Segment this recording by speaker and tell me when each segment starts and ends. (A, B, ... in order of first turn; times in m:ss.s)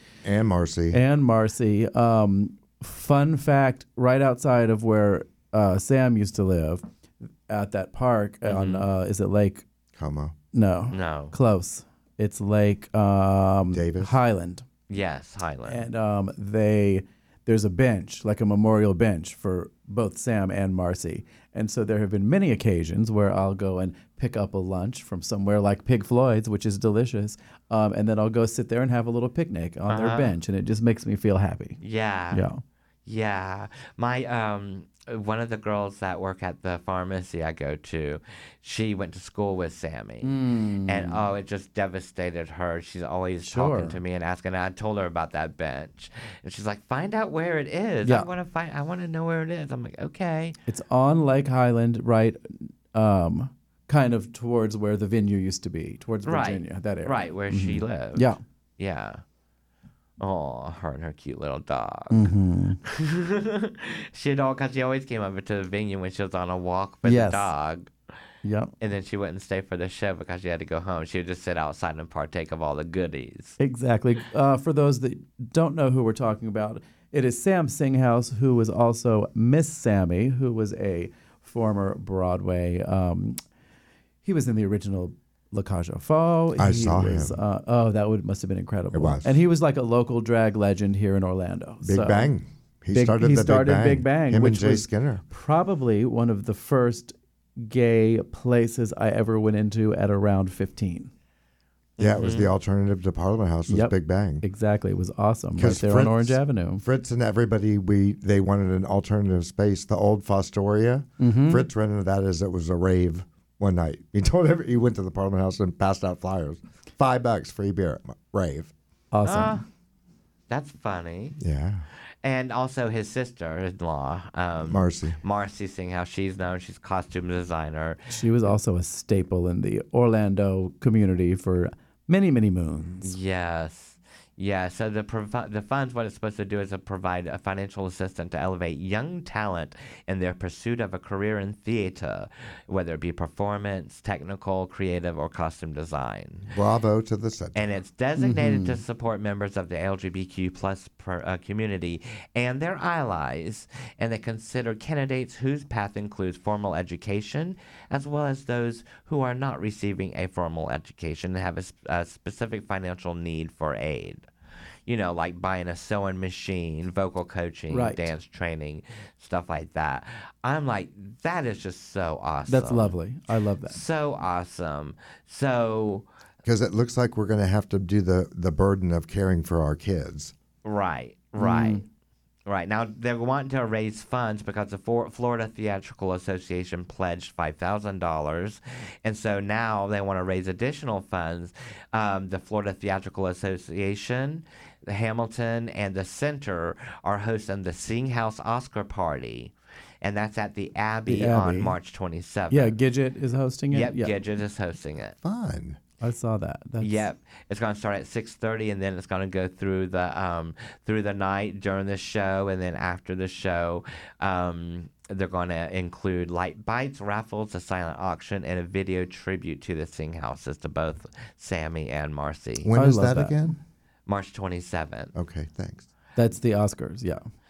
0:00.2-0:01.0 A
0:00.9-0:06.8 B
0:07.5-0:09.6 B
0:08.4-0:08.8 C
0:09.9-0:10.3 A
0:10.5-0:14.7 B
0:10.9-0:11.3 C
0:13.7-0:14.2 A
0:14.9-0:15.8 C
0:15.7-0:31.8 B
0:29.9-0:30.3 C
0:31.8-0:32.4 C
0:32.3-0:32.6 B
0:33.0-0:40.3 C
0:40.2-0:41.2 B
0:40.8-0:50.6 C
0:43.4-0:44.0 B
0:50.7-0:58.4 B
0:56.2-0:59.2 C
1:00.2-1:02.3 C
1:02.1-1:02.8 B
1:02.8-1:07.9 C
1:07.0-1:07.5 B
1:08.4-1:08.7 B
1:08.8-1:13.6 C
1:13.6-1:23.4 B
1:24.2-1:32.3 B
1:26.6-1:27.4 A
1:28.9-1:29.4 A
1:31.8-1:35.2 A
1:32.9-1:41.1 B
1:42.0-1:42.5 C
1:42.0-1:44.4 A
1:43.7-1:46.8 B
1:45.6-1:58.7 A
1:51.2-1:51.6 B
1:59.1-1:59.6 B
1:59.2-1:59.6 C
2:00.5-2:01.4 C
2:01.4-2:01.8 A
2:02.2-2:08.2 C
2:04.7-2:05.2 A
2:08.1-2:13.1 B
2:13.0-2:26.5 C
2:26.5-2:27.6 A
2:27.5-2:44.2 C
2:28.2-2:28.8 B
2:44.9-2:52.9 C
2:47.7-2:48.1 B
2:52.5-2:53.8 B
2:53.7-2:56.0 C
2:56.4-3:00.3 A
3:00.6-3:01.8 C
3:01.4-3:01.8 B
3:02.4-3:22.7 C
3:21.1-3:21.8 B
3:22.5-3:24.1 B
3:23.7-3:25.2 C
3:25.2-3:25.8 A
3:26.0-3:27.0 B
3:26.8-3:42.7 C
3:42.6-3:43.6 A
3:42.7-3:43.5 B
3:44.1-3:45.1 C
3:45.1-3:45.9 A
3:46.2-3:47.2 B